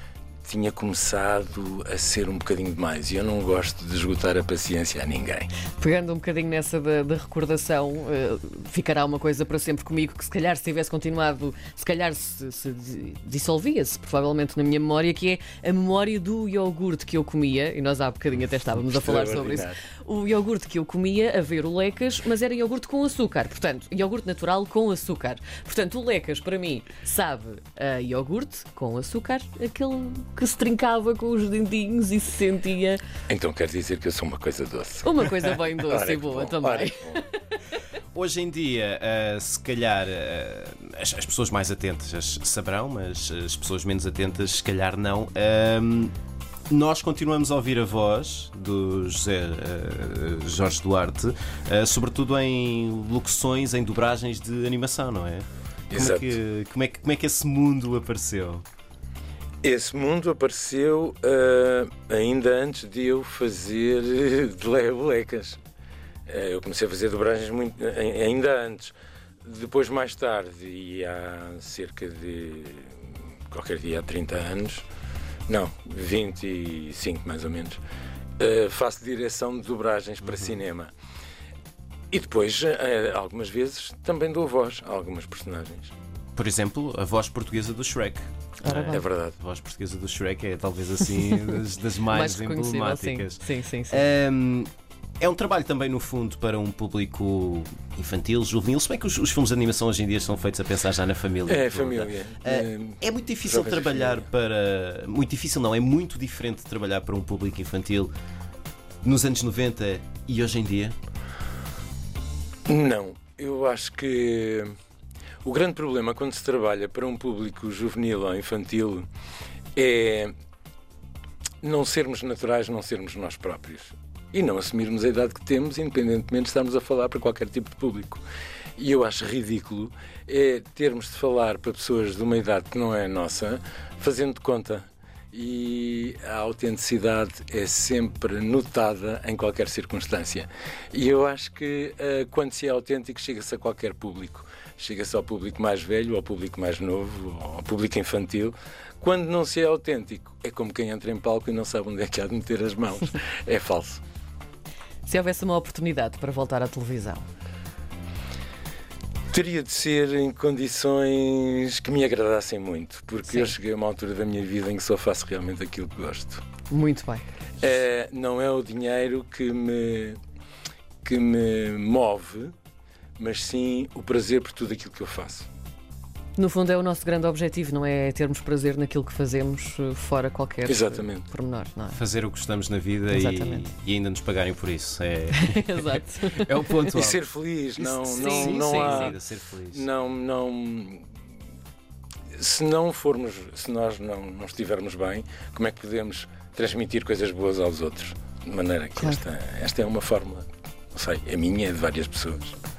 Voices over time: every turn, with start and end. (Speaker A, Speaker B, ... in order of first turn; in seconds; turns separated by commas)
Speaker A: 0.4-5.5, Speaker B: 5.8-33.0, Speaker A: 18.8-19.8, Speaker A: 33.3-37.2, Speaker B: 35.0-37.3, Speaker C: 38.1-46.1, Speaker C: 46.7-58.6, Speaker A: 55.9-56.4, Speaker A: 59.6-65.6, Speaker A: 66.3-74.8, Speaker A: 75.5-77.8, Speaker A: 78.4-80.9, Speaker A: 82.1-85.9, Speaker C: 86.3-108.1, Speaker B: 88.6-89.0, Speaker A: 88.9-89.3, Speaker B: 92.1-94.0, Speaker A: 101.5-104.2, Speaker C: 109.0-111.0, Speaker A: 112.7-114.7, Speaker A: 115.4-119.1, Speaker A: 119.7-120.3, Speaker A: 121.6-128.2, Speaker A: 128.8-154.0, Speaker B: 155.1-157.2, Speaker A: 159.3-166.4, Speaker B: 163.3-163.5, Speaker B: 166.7-167.2, Speaker A: 167.6-170.2, Speaker A: 171.0-172.5, Speaker A: 173.2-175.5, Speaker B: 176.4-182.0, Speaker A: 180.7-181.3, Speaker C: 181.9-187.2, Speaker B: 183.1-183.7, Speaker B: 185.3-186.6, Speaker A: 186.9-189.2, Speaker B: 187.8-189.1, Speaker C: 188.1-189.8, Speaker A: 189.7-191.1, Speaker A: 192.4-202.6